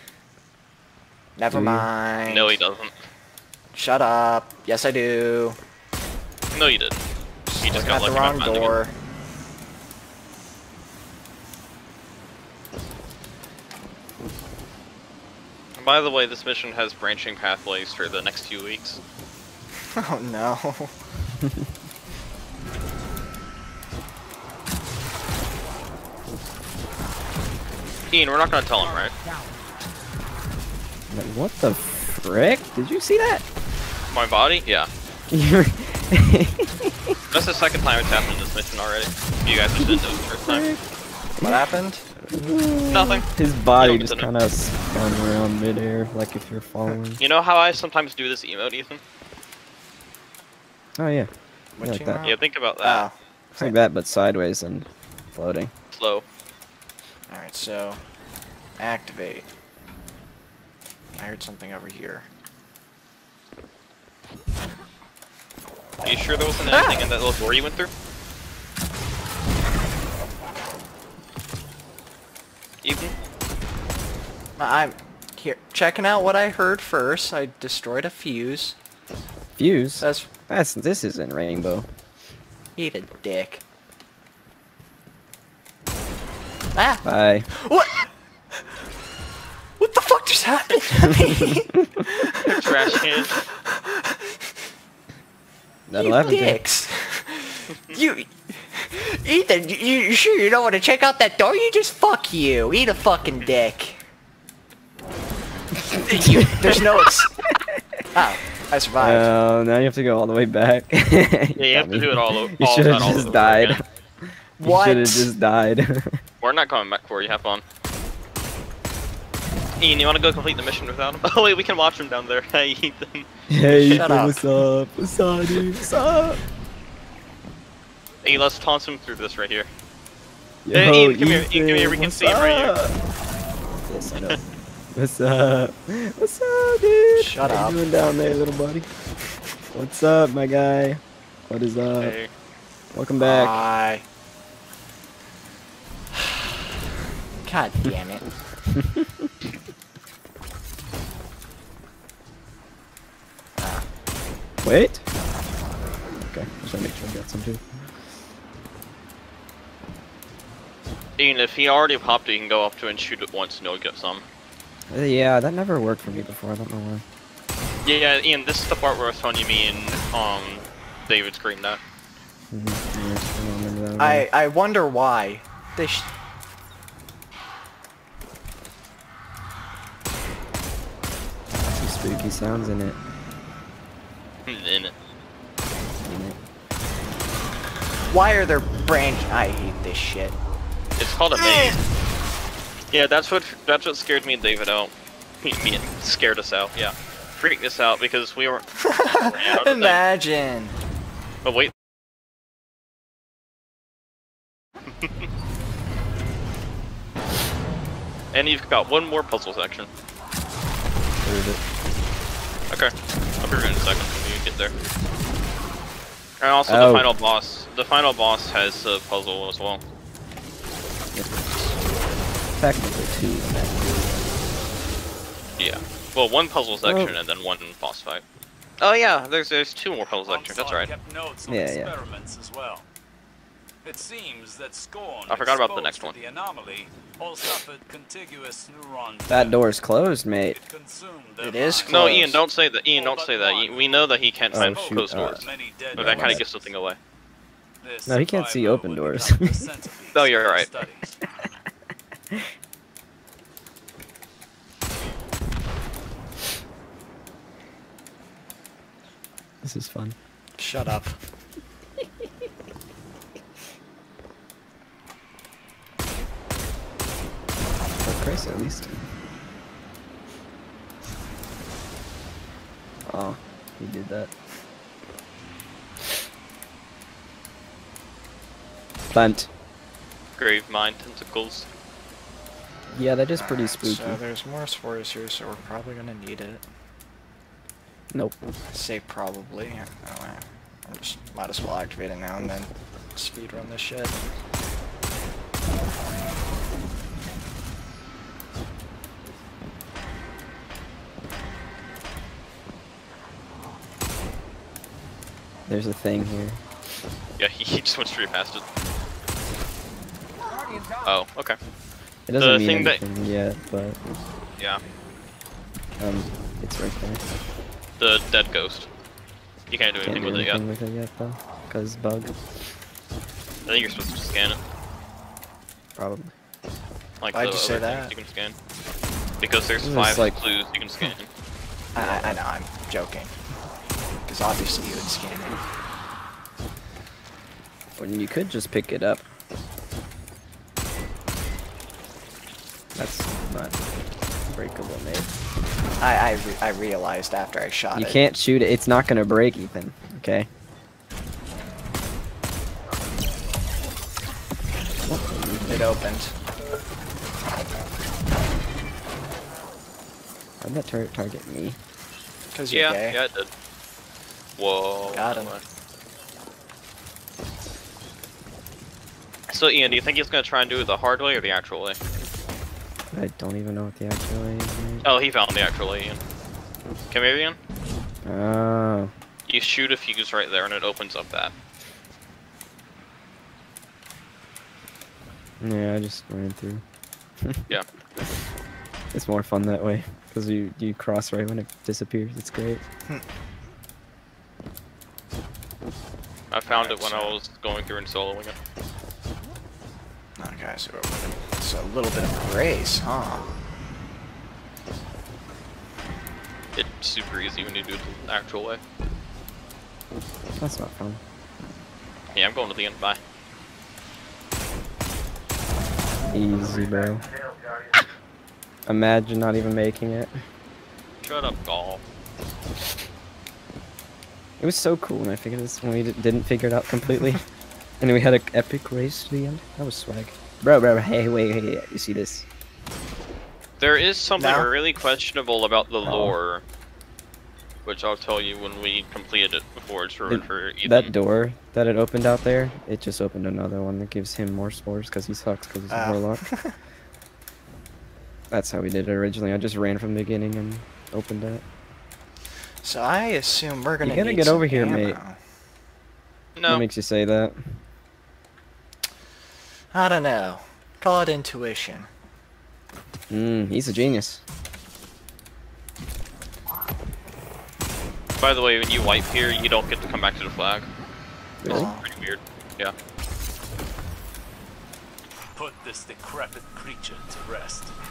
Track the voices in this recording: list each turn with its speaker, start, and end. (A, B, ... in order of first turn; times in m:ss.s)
0:01.4-0:02.6 A
0:01.5-0:01.9 B
0:02.3-0:02.9 C
0:03.7-0:05.6 A
0:06.5-0:07.0 C
0:07.5-0:08.9 A
0:07.6-0:08.8 C
0:15.8-0:19.0 C
0:19.9-0:20.9 A
0:28.1-0:29.1 C
0:31.1-0:33.4 B
0:34.1-0:34.9 C
0:35.3-0:37.2 B
0:37.3-0:40.6 C
0:39.8-0:40.8 B
0:41.4-0:42.1 A
0:42.2-0:47.2 B
0:42.9-0:43.2 C
0:43.8-0:44.3 C
0:47.2-0:49.0 C
0:51.0-0:52.2 B
0:51.8-0:53.8 A
0:52.2-0:53.1 C
0:53.6-0:55.7 B
0:55.9-0:56.2 C
0:57.3-0:58.0 A
0:58.8-0:59.4 A
1:01.2-1:02.3 A
1:06.0-1:07.9 C
1:06.7-1:07.1 A
1:12.8-1:13.1 C
1:14.6-1:18.8 A
1:19.6-1:21.9 B
1:20.0-1:20.3 A
1:22.8-1:23.6 A
1:26.7-1:28.1 A
1:27.0-1:27.5 B
1:29.8-1:34.4 A
1:31.4-1:32.0 B
1:32.4-1:33.4 C
1:35.9-1:36.6 B
1:35.9-1:44.0 A
1:45.9-1:48.0 B
1:46.0-1:47.3 A
1:48.1-1:49.3 A
1:49.0-1:56.2 B
1:51.6-1:53.8 C
1:54.6-1:55.3 A
1:56.4-1:57.6 C
1:59.8-2:04.0 C
2:03.5-2:06.4 B
2:03.7-2:04.5 A
2:08.2-2:09.7 C
2:10.6-2:13.0 B
2:10.7-2:12.8 C
2:13.8-2:14.4 B
2:14.9-2:18.9 B
2:17.1-2:17.8 A
2:19.7-2:22.2 B
2:22.0-2:22.3 C
2:22.9-2:23.6 B
2:23.2-2:24.0 A
2:26.2-2:26.5 A
2:27.4-2:28.2 A
2:28.7-2:29.3 B
2:33.6-2:33.9 A
2:34.6-2:35.0 B
2:35.4-2:35.8 A
2:36.2-2:37.8 B
2:41.2-2:44.2 C
2:44.9-2:47.0 B
2:47.8-2:51.8 C
2:52.5-2:54.3 B
2:54.0-2:56.1 A
3:01.6-3:03.0 B
3:04.4-3:04.9 C
3:06.0-3:06.4 B
3:08.1-3:10.4 A
3:11.0-3:11.8 C
3:11.4-3:11.8 A
3:12.9-3:18.6 C
3:18.8-3:20.8 A
3:19.3-3:20.0 C
3:21.4-3:21.7 C
3:28.3-3:29.9 C
3:31.2-3:31.6 B
3:32.7-3:34.7 C
3:36.4-3:39.8 C
3:36.7-3:37.1 B
3:41.1-3:41.6 B
3:42.6-3:44.3 B
3:45.6-3:48.2 C
3:46.8-3:47.1 B
3:48.8-3:50.9 C
3:50.2-3:52.8 D
3:51.5-3:51.9 B
3:53.8-3:59.6 D
3:55.3-3:56.2 C
3:59.3-4:00.6 B
4:00.5-4:02.2 D
4:01.4-4:02.2 A
4:01.9-4:07.0 C
4:01.9-4:02.4 B
4:02.9-4:06.7 D
4:04.5-4:06.4 B
4:07.8-4:11.2 D
4:08.1-4:09.6 B
4:10.1-4:10.7 C
4:19.6-4:20.2 B
4:20.6-4:21.2 A
4:28.0-4:29.0 B
4:33.0-4:34.3 B
4:39.1-4:39.5 B
4:40.4-4:41.7 C
4:42.9-4:44.2 B
4:43.4-4:46.6 A
4:48.7-4:54.2 A
5:05.7-5:06.6 B
5:07.4-5:08.6 C
5:11.0-5:11.6 C
5:12.3-5:14.0 B
5:12.4-5:13.0 C
5:16.0-5:17.2 B
5:18.0-5:18.9 C
5:19.7-5:20.6 C
5:20.0-5:22.3 B
5:23.7-5:24.6 C
5:26.0-5:26.3 B
5:27.2-5:28.5 C
5:27.3-5:28.1 A
5:29.4-5:31.3 C
5:29.8-5:30.4 B
5:31.9-5:33.3 A
5:32.0-5:32.4 B
5:34.2-5:35.6 A
5:38.0-5:39.2 B
5:42.9-5:43.8 B
5:44.5-5:45.3 B
5:46.0-5:48.2 A
5:47.9-5:50.5 B
5:55.0-5:55.9 B
5:55.7-5:56.3 A
6:00.6-6:01.8 B
6:02.5-6:03.2 A
6:02.7-6:03.5 C
6:04.6-6:05.6 C
6:05.1-6:05.5 A
6:09.5-6:12.0 C
6:13.1-6:15.0 B
6:15.0-6:16.2 C
6:17.1-6:17.6 C
6:18.2-6:19.1 B
6:19.5-6:21.5 C
6:25.6-6:26.8 B
6:29.1-6:32.8 B
6:36.5-6:38.6 C
6:36.6-6:37.4 A
6:40.4-6:43.5 A
6:46.8-6:48.8 C
6:50.6-6:51.2 B
6:52.3-6:53.2 C
6:56.3-6:57.3 B
6:58.9-7:00.4 B
7:01.2-7:02.0 C
7:04.6-7:07.4 B
7:08.0-7:12.5 B
7:13.8-7:16.6 C
7:14.4-7:14.7 A
7:16.0-7:16.3 B
7:17.8-7:21.1 C
7:20.3-7:26.5 B
7:25.9-7:26.7 A
7:28.5-7:31.6 B
7:32.8-7:35.4 A
7:34.0-7:35.2 B
7:36.6-7:36.8 C
7:36.7-7:37.8 B
7:39.9-7:42.1 A
7:43.3-7:44.4 B
7:48.4-7:50.9 C
7:51.6-7:51.9 B
7:51.7-7:52.0 A
7:51.7-7:52.9 C
7:55.5-7:57.9 D